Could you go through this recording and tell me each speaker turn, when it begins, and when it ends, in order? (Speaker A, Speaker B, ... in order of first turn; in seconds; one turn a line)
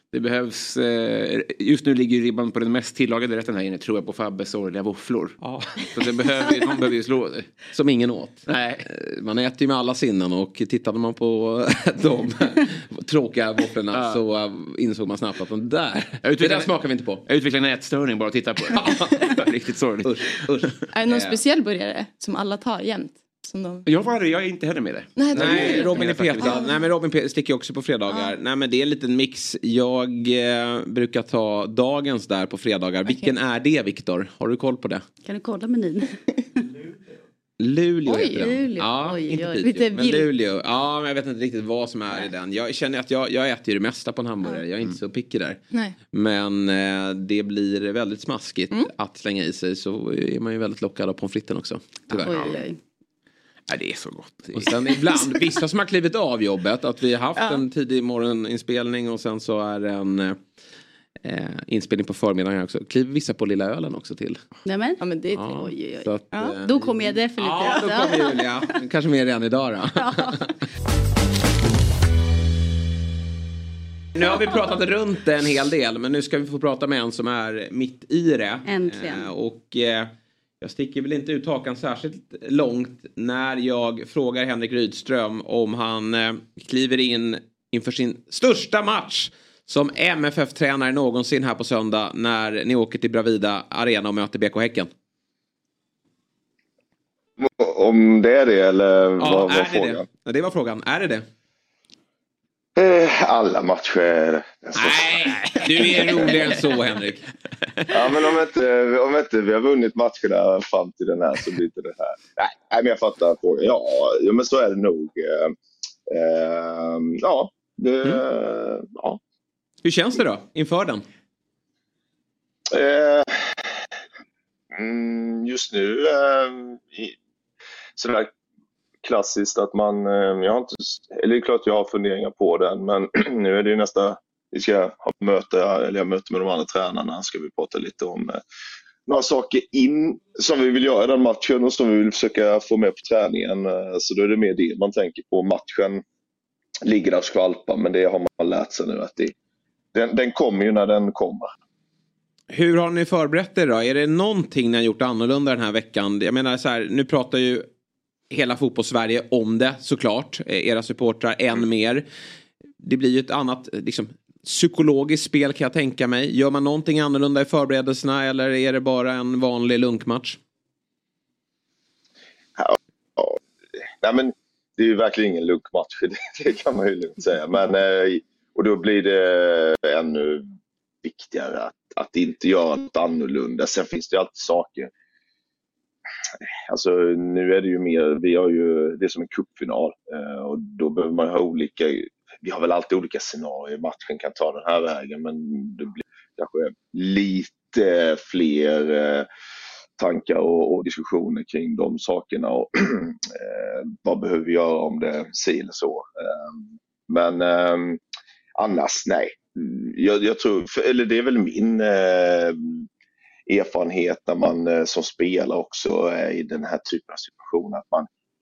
Speaker A: 0.1-5.4
Speaker B: 5.4-5.7
Speaker A: 5.9-7.5
Speaker B: 7.7-17.2
Speaker A: 8.5-8.9
Speaker A: 13.9-14.2
Speaker A: 16.2-20.1
Speaker B: 18.8-19.1
Speaker B: 20.0-21.4
Speaker C: 20.9-23.9
Speaker A: 23.9-26.7
Speaker C: 25.2-26.7
Speaker B: 25.3-35.0
Speaker D: 35.2-36.6
Speaker B: 37.6-45.6
Speaker C: 38.1-38.7
Speaker D: 38.1-40.2
Speaker C: 39.6-40.2
Speaker B: 46.1-52.6
Speaker D: 52.2-52.8
Speaker A: 53.7-54.8
Speaker B: 54.5-60.4
Speaker C: 57.4-57.6
Speaker B: 61.2-64.4
Speaker D: 64.7-68.4
Speaker C: 65.0-65.7
Speaker B: 65.3-70.5
Speaker C: 66.3-66.6
Speaker D: 70.0-70.4
Speaker B: 74.2-94.9
Speaker D: 74.2-74.7
Speaker D: 78.7-79.3
Speaker E: 97.4-100.0
Speaker B: 99.2-101.3
Speaker E: 102.8-106.3
Speaker B: 104.8-107.3
Speaker E: 107.9-115.5
Speaker E: 116.1-119.2
Speaker B: 119.8-121.0
Speaker E: 122.7-123.7
Speaker E: 124.7-127.2
Speaker E: 128.0-128.3
Speaker E: 129.0-138.4
Speaker E: 139.1-146.0
Speaker E: 146.8-149.3
Speaker E: 149.9-151.5
Speaker B: 152.5-157.7
Speaker B: 158.3-162.1
Speaker B: 162.8-170.4
Speaker E: 172.6-173.4
Speaker E: 174.0-180.5
Speaker E: 181.0-184.9
Speaker E: 186.7-199.3
Speaker E: 200.0-208.0
Speaker E: 208.6-212.8
Speaker E: 213.5-218.1